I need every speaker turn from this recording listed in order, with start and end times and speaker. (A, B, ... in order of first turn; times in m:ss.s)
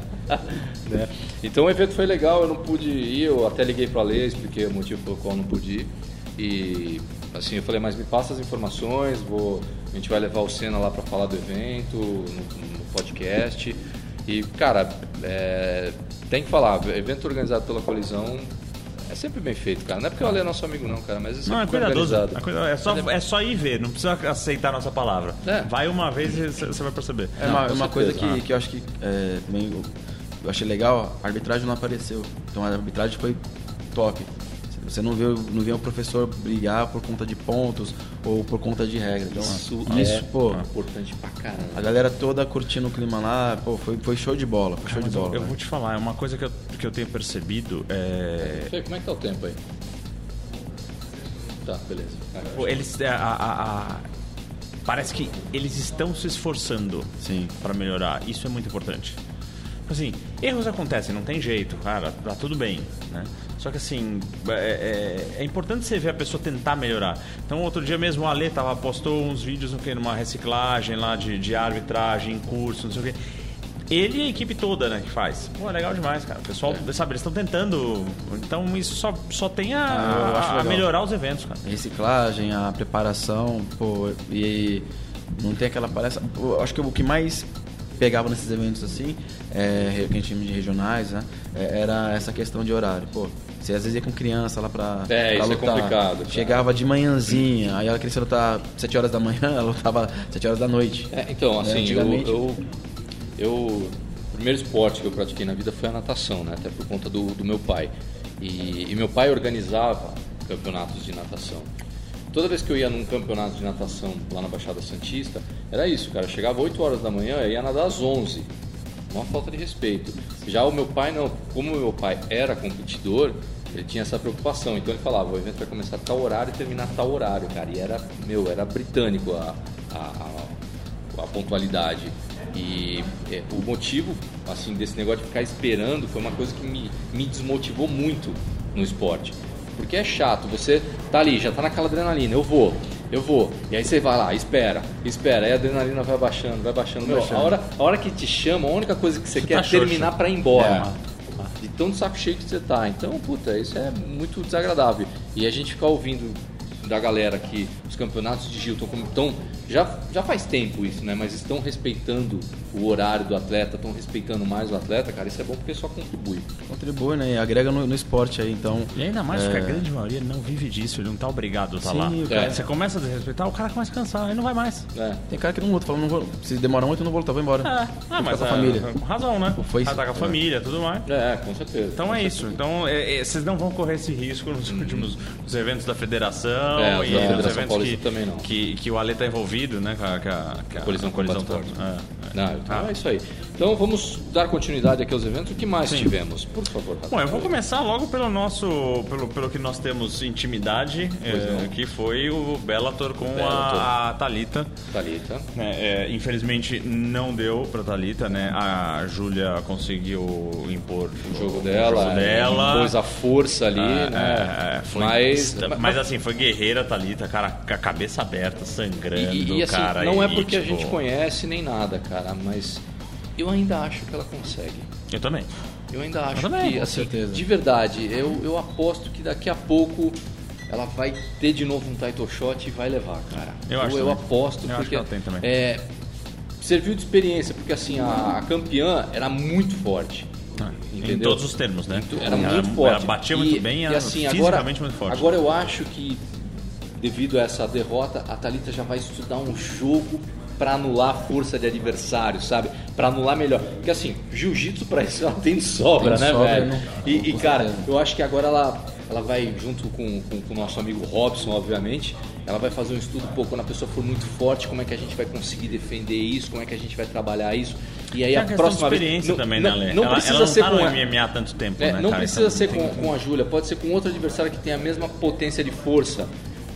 0:00.3-0:18.5 A
0:19.1-0:23.0 A
0:21.4-0:27.5 B
0:25.4-0:25.7 A
0:27.4-0:29.9 C
0:27.4-0:28.3 A
0:30.4-0:33.4 C
0:33.9-0:40.6 C
0:39.3-0:42.0 A
0:39.9-0:40.6 B
0:41.7-0:45.5 C
0:44.9-0:48.7 B
0:48.4-0:49.6 A
0:51.6-0:52.7 A
0:52.6-0:54.0 B
0:54.9-0:59.2 B
0:57.2-0:57.5 C
0:59.9-1:13.2 B
1:13.9-1:21.6 B
1:19.9-1:20.9 C
1:21.6-1:24.8 C
1:25.4-1:27.5 C
1:28.0-1:42.4 C
1:35.1-1:36.6 A
1:41.1-1:42.6 A
1:43.4-1:51.7 A
1:52.3-1:58.5 A
1:59.1-2:10.5 A
2:11.1-2:30.9 A
2:27.0-2:27.6 C
2:29.4-2:30.9 B
2:30.6-2:30.9 C
2:31.6-2:46.5 A
2:46.7-2:49.9 C
2:49.0-2:54.9 B
2:51.8-2:52.6 C
2:52.3-2:52.6 A
2:54.9-2:55.2 A
2:55.3-2:58.9 C
2:57.6-3:01.1 B
2:59.6-3:00.4 C
3:01.1-3:02.6 A
3:02.0-3:12.9 B
3:04.7-3:05.1 A
3:06.8-3:08.5 A
3:07.1-3:07.4 C
3:10.8-3:11.8 A
3:12.3-3:17.5 A
3:15.9-3:16.1 B
3:17.1-3:24.7 B
3:21.3-3:21.7 A
3:23.3-3:23.9 A
3:24.9-3:25.5 A
3:25.6-3:33.0 B
3:31.3-3:36.0 A
3:33.8-3:41.0 B
3:39.2-3:42.8 A
3:43.4-3:44.9 A
3:45.1-3:45.5 B
3:45.9-3:50.2 A
3:46.3-3:46.9 B
3:46.8-3:47.4 C
3:50.7-3:55.9 A
3:53.7-3:55.5 B
3:56.6-4:00.3 A
4:00.6-4:05.3 B
4:00.9-4:06.2 A
4:07.0-4:31.0 A
4:16.0-4:17.9 C
4:28.3-4:33.1 B
4:31.8-4:36.3 A